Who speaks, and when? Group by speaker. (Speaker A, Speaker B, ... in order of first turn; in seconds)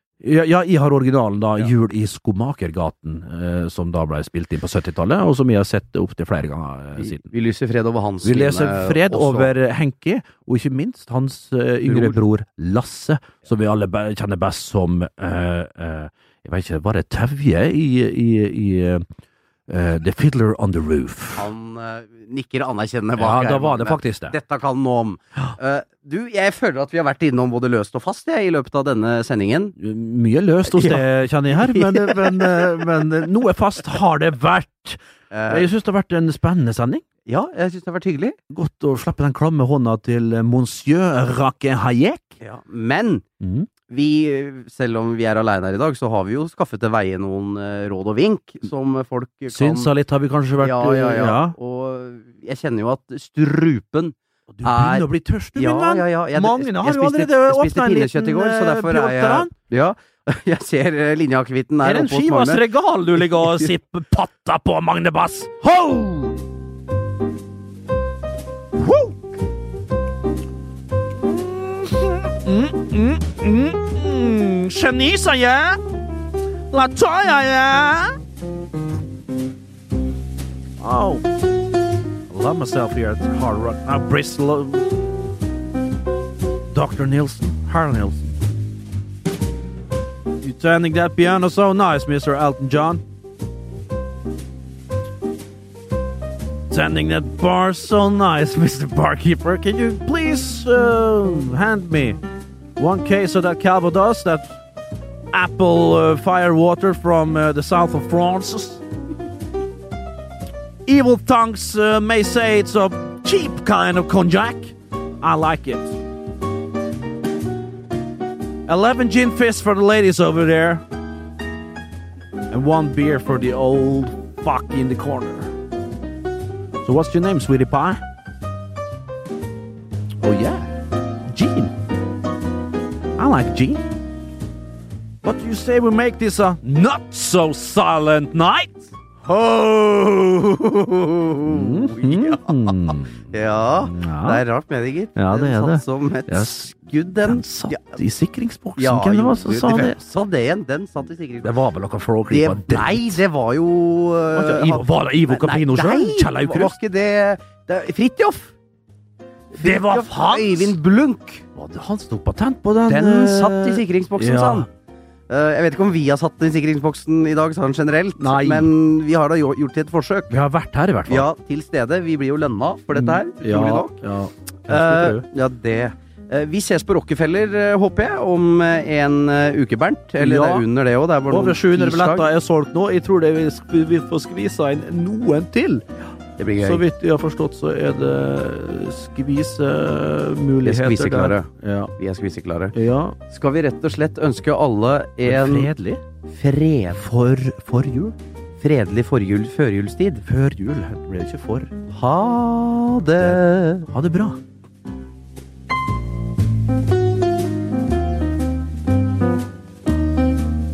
Speaker A: 0.2-7.3, 8.2-19.1, 19.7-21.5, 23.2-24.4, 29.8-37.0, 38.5-42.4, 43.4-43.7, 49.5-51.5, 54.5-59.5, 61.8-66.4, 68.8-69.2, 71.2-75.8, 76.7-78.2, 80.8-81.2, 82.3-84.9, 86.7-88.3, 90.4-93.0, 96.7-102.2, 102.8-104.6, 105.3-108.8, 110.9-116.0, 118.7-120.8, 122.5-125.5, 126.8-128.0, 130.2-130.7, 131.3-131.7, 133.2-133.8, 135.2-138.9, 141.5-143.3, 143.8-144.4, 145.2-150.0, 151.4-153.2, 154.3-156.8, 159.5-160.8, 161.6-164.7, 168.2-168.7, 170.3-171.3, 172.9-175.2, 180.2-180.7, 181.3-185.8, 186.6-191.9, 192.7-193.2, 195.3-196.0, 196.9-198.2, 200.2-201.7, 203.2-204.4
Speaker B: 7.0-9.5, 11.9-12.2, 21.4-29.8, 30.7-32.8, 35.3-35.7, 37.3-38.4, 42.4-43.2, 43.9-49.9, 50.6-62.6, 63.2-63.7, 139.2-148.0, 148.8-151.5, 152.3-158.5, 159.6-161.4, 162.9-164.7, 165.3-170.3, 171.1-174.0, 174.7-182.3, 186.4-186.8, 190.6-192.8, 193.3-195.7, 196.3-197.0, 198.6-200.2, 201.9-203.9